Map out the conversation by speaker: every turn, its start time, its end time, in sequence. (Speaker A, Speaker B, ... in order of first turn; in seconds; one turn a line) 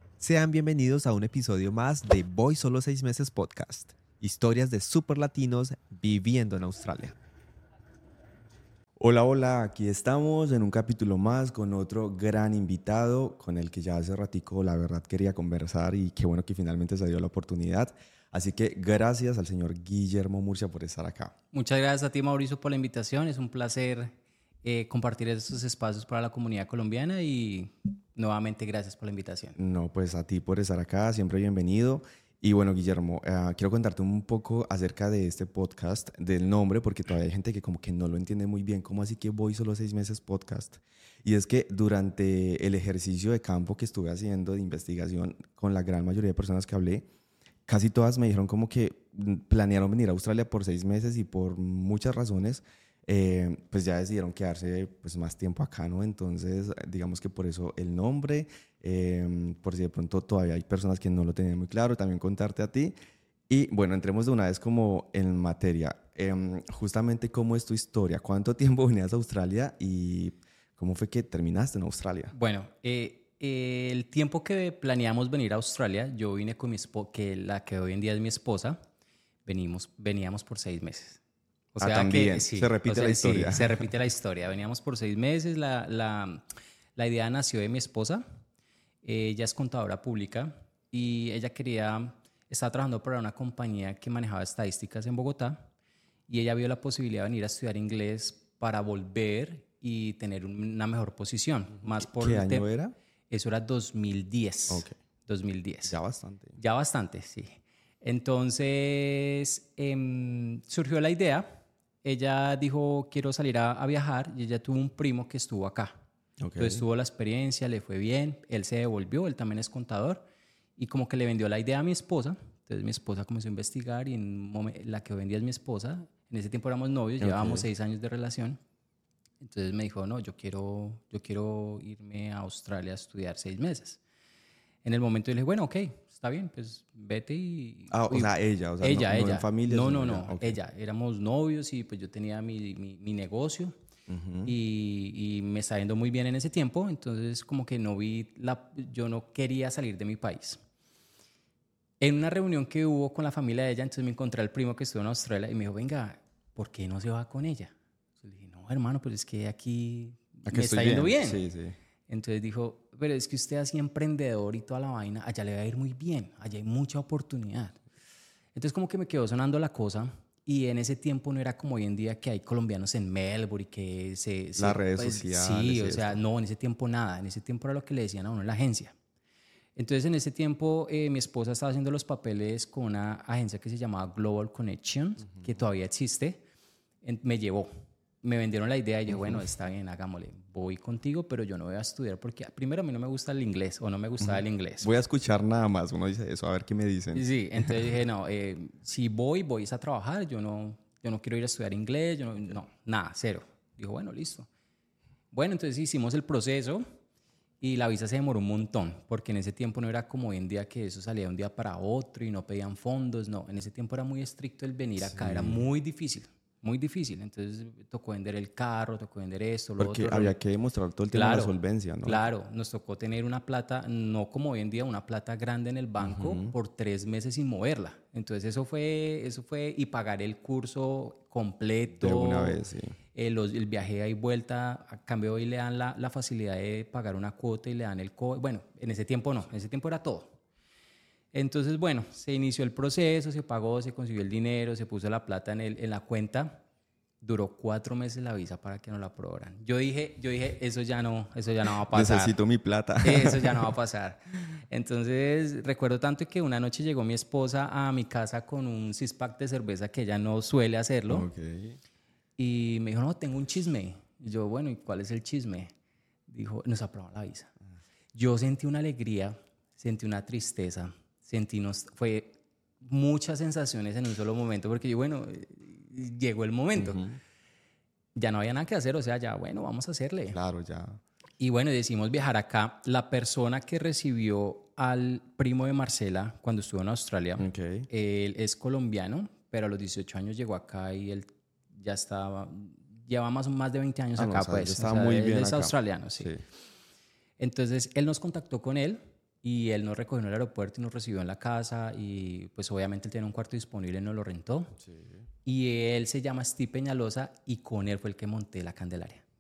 Speaker A: 0.2-7.2
Speaker B: 9.0-21.4
Speaker C: 21.5-29.6
Speaker B: 29.6-47.1
Speaker B: 47.7-63.0
Speaker B: 63.5-72.3
Speaker C: 72.3-78.8
Speaker C: 79.5-81.2
Speaker C: 81.7-86.4
Speaker B: 81.8-83.9
Speaker C: 87.0-88.2
Speaker C: 89.0-95.7
Speaker C: 96.3-102.7
Speaker B: 101.9-102.9
Speaker C: 103.3-106.0
Speaker B: 104.7-105.0
Speaker B: 105.9-106.6
Speaker C: 106.6-116.0
Speaker B: 116.4-116.8
Speaker C: 116.6-120.2
Speaker C: 120.8-128.6
Speaker B: 127.2-127.7
Speaker C: 129.4-134.0
Speaker C: 134.8-143.8
Speaker B: 137.9-140.6
Speaker B: 144.1-144.5
Speaker C: 144.4-150.6
Speaker C: 152.0-161.4
Speaker B: 160.5-161.8
Speaker C: 162.1-167.8
Speaker C: 168.6-178.9
Speaker B: 174.6-176.2
Speaker C: 179.8-186.4
Speaker C: 187.0-187.7
Speaker C: 188.2-194.9
Speaker B: 189.1-189.4
Speaker B: 194.2-197.8
Speaker C: 197.1-204.5
Speaker C: 205.3-206.8
Speaker C: 207.6-220.4
Speaker B: 215.0-215.7
Speaker B: 219.8-222.2
Speaker C: 221.1-232.6
Speaker B: 226.0-226.5
Speaker B: 232.0-232.9
Speaker C: 233.1-240.3
Speaker C: 241.3-246.6
Speaker C: 247.2-252.4
Speaker B: 251.9-253.8
Speaker C: 253.0-261.3
Speaker B: 261.1-261.8
Speaker C: 262.4-265.7
Speaker C: 266.3-267.5
Speaker C: 268.1-277.1
Speaker B: 276.8-277.2
Speaker C: 278.1-280.4
Speaker B: 280.3-281.0
Speaker C: 281.4-296.4
Speaker B: 287.4-287.9
Speaker B: 294.2-296.4
Speaker C: 297.4-304.8
Speaker B: 304.9-305.2
Speaker C: 305.4-309.2